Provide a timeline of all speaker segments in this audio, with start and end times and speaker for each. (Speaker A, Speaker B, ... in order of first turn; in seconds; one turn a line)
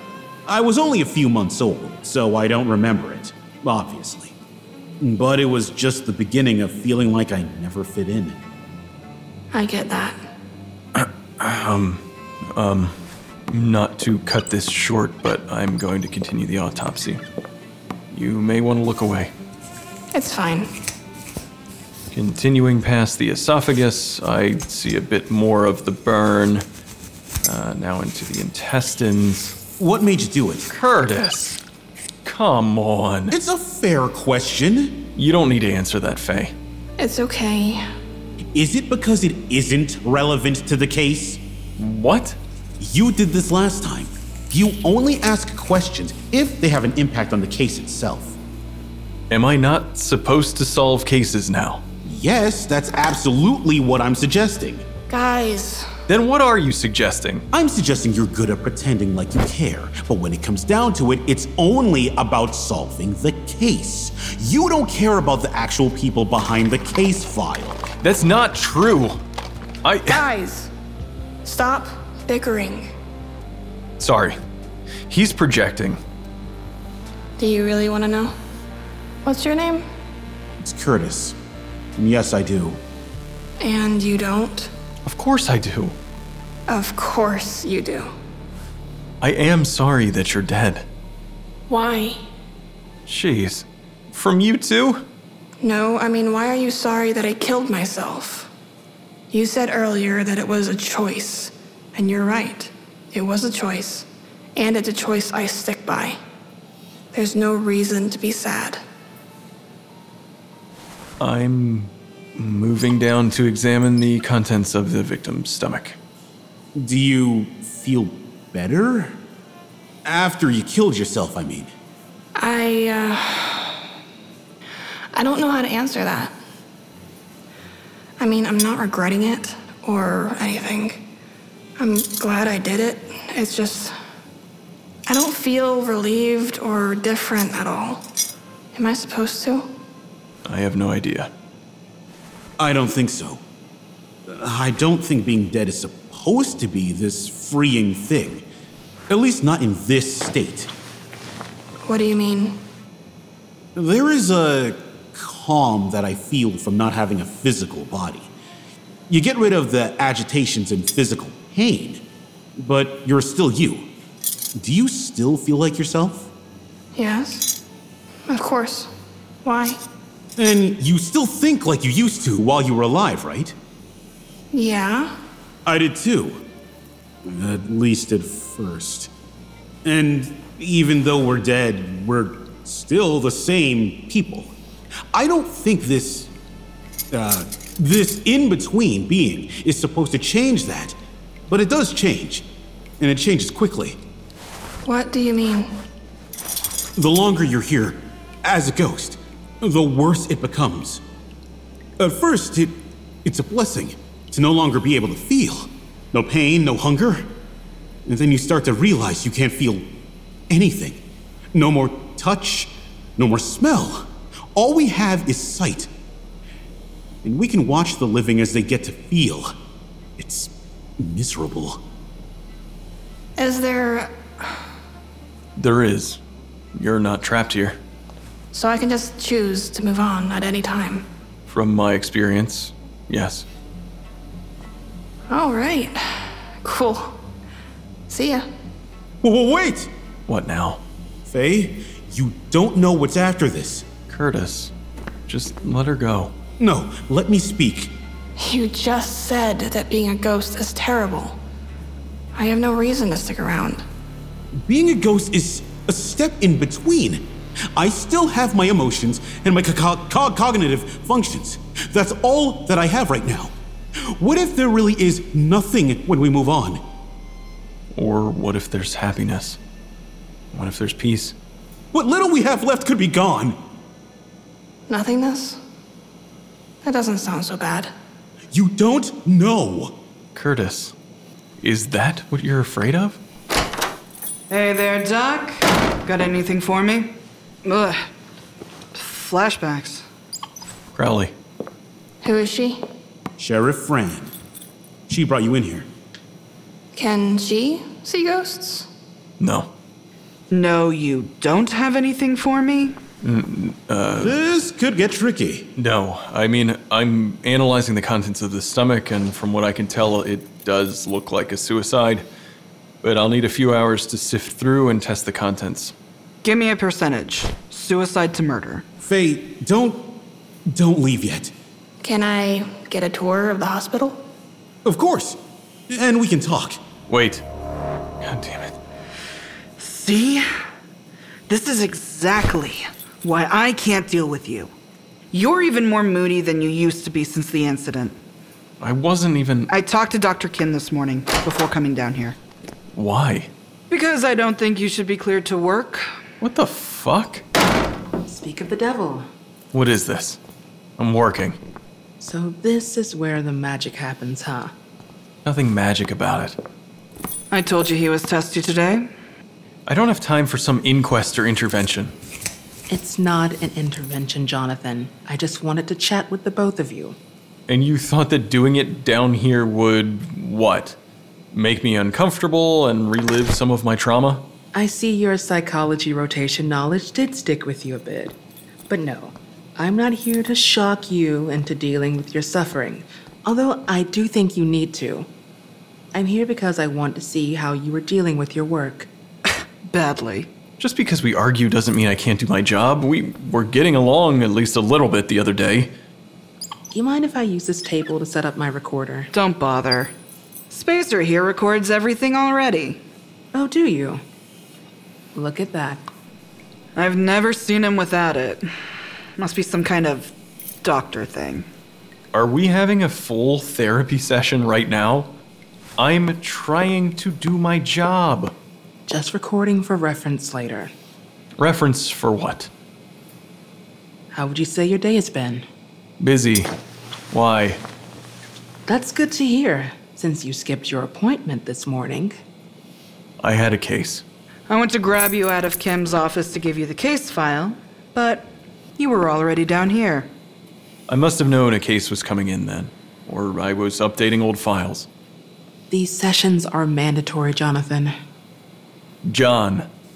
Speaker A: 0.5-4.3
Speaker A: 5.0-8.4
Speaker B: 9.5-10.2
Speaker C: 10.9-12.9
Speaker C: 13.5-17.2
Speaker C: 18.1-19.3
Speaker B: 20.1-20.7
Speaker C: 22.1-26.6
Speaker C: 27.4-29.6
Speaker A: 29.8-30.7
Speaker C: 30.7-31.6
Speaker C: 32.2-33.3
Speaker A: 33.3-35.0
Speaker C: 35.1-36.5
Speaker B: 37.0-37.8
Speaker A: 38.5-41.4
Speaker C: 41.8-42.4
Speaker A: 42.8-48.4
Speaker C: 49.3-51.8
Speaker A: 52.0-54.8
Speaker B: 55.1-55.9
Speaker C: 56.1-57.4
Speaker A: 57.5-67.8
Speaker C: 68.0-69.2
Speaker C: 69.8-70.2
Speaker B: 70.1-70.7
Speaker B: 71.4-72.9
Speaker C: 74.0-74.3
Speaker C: 75.1-76.0
Speaker B: 77.4-78.3
Speaker B: 79.2-79.8
Speaker A: 80.6-81.3
Speaker A: 82.0-82.8
Speaker B: 83.6-84.7
Speaker C: 85.0-86.0
Speaker B: 86.7-88.1
Speaker C: 89.2-90.8
Speaker B: 91.7-92.2
Speaker C: 93.1-95.0
Speaker B: 95.6-98.5
Speaker B: 99.3-106.2
Speaker B: 107.1-108.8
Speaker C: 111.2-116.0
Speaker A: 116.7-119.2
Speaker A: 120.0-121.7
Speaker B: 122.4-123.8
Speaker B: 125.1-126.3
Speaker B: 128.2-131.0
Speaker B: 131.8-133.9
Speaker B: 135.1-138.0
Speaker B: 138.7-139.7
Speaker C: 140.4-141.3
Speaker A: 142.6-143.4
Speaker A: 144.3-148.4
Speaker A: 149.1-150.7
Speaker B: 151.8-152.6
Speaker A: 153.7-158.3
Speaker A: 159.1-162.0
Speaker A: 162.6-163.9
Speaker A: 164.5-166.3
Speaker B: 166.9-167.5
Speaker B: 168.3-168.9
Speaker B: 169.4-169.8
Speaker A: 170.4-173.5
Speaker B: 174.5-175.2
Speaker A: 175.6-176.4
Speaker A: 177.2-179.1
Speaker A: 179.8-184.5
Speaker A: 185.1-186.3
Speaker A: 187.1-190.9
Speaker A: 191.5-192.4
Speaker A: 193.0-194.0
Speaker B: 194.8-195.8
Speaker A: 196.9-201.0
Speaker A: 202.0-207.3
Speaker A: 208.1-209.9
Speaker A: 210.5-215.9
Speaker A: 217.2-219.5
Speaker A: 220.2-221.8
Speaker B: 223.4-224.5
Speaker C: 225.6-226.2
Speaker C: 226.7-227.8
Speaker B: 228.5-231.1
Speaker C: 231.5-233.4
Speaker B: 235.3-237.2
Speaker B: 238.1-238.5
Speaker A: 239.2-239.9
Speaker C: 240.3-240.8
Speaker A: 241.3-243.8
Speaker C: 244.1-244.7
Speaker C: 245.3-246.3
Speaker A: 246.6-247.9
Speaker B: 248.4-251.4
Speaker B: 252.3-253.8
Speaker A: 254.5-266.8
Speaker C: 267.9-269.6
Speaker C: 270.5-271.3
Speaker A: 271.9-273.6
Speaker B: 274.9-275.6
Speaker B: 276.8-277.9
Speaker A: 278.5-279.9
Speaker C: 280.3-280.9
Speaker C: 281.6-283.2
Speaker D: 284.5-288.1
Speaker D: 288.9-290.0
Speaker C: 290.9-291.3
Speaker B: 292.2-292.9
Speaker A: 293.4-294.3
Speaker A: 295.1-295.9
Speaker B: 296.9-298.9
Speaker C: 299.4-299.7
Speaker D: 300.5-302.9
Speaker C: 303.2-304.4
Speaker A: 304.2-305.7
Speaker C: 305.8-312.2
Speaker C: 313.0-315.9
Speaker D: 316.4-318.8
Speaker A: 319.0-321.5
Speaker B: 322.0-324.2
Speaker A: 324.8-326.8
Speaker C: 327.1-327.4
Speaker C: 328.2-328.7
Speaker D: 329.8-330.5
Speaker D: 331.5-334.7
Speaker D: 335.3-338.1
Speaker C: 338.8-339.7
Speaker D: 339.7-342.4
Speaker C: 342.9-343.5
Speaker D: 343.9-346.1
Speaker C: 346.4-347.4
Speaker E: 348.2-349.2
Speaker C: 349.7-350.4
Speaker C: 351.0-351.6
Speaker E: 352.2-354.7
Speaker C: 355.4-356.6
Speaker D: 357.5-359.1
Speaker C: 359.9-362.1
Speaker E: 362.9-367.1
Speaker C: 367.7-371.0
Speaker C: 371.5-374.4
Speaker E: 374.7-378.3
Speaker E: 378.9-385.3
Speaker E: 386.1-389.1
Speaker D: 389.5-390.5
Speaker C: 390.8-395.9
Speaker E: 396.9-399.3
Speaker D: 399.3-400.1
Speaker D: 400.7-403.0
Speaker E: 403.5-404.2
Speaker E: 405.3-406.0
Speaker D: 406.9-408.7
Speaker D: 409.4-411.7
Speaker C: 412.3-415.3
Speaker C: 416.0-418.5
Speaker E: 419.1-420.9
Speaker C: 421.6-422.7
Speaker E: 424.3-425.6
Speaker C: 426.2-426.7
Speaker C: 427.3-427.8
Speaker E: 428.9-432.3
Speaker C: 433.4-434.2
Speaker D: 434.7-440.3
Speaker C: 441.1-445.1
Speaker E: 445.9-448.1
Speaker C: 449.2-449.9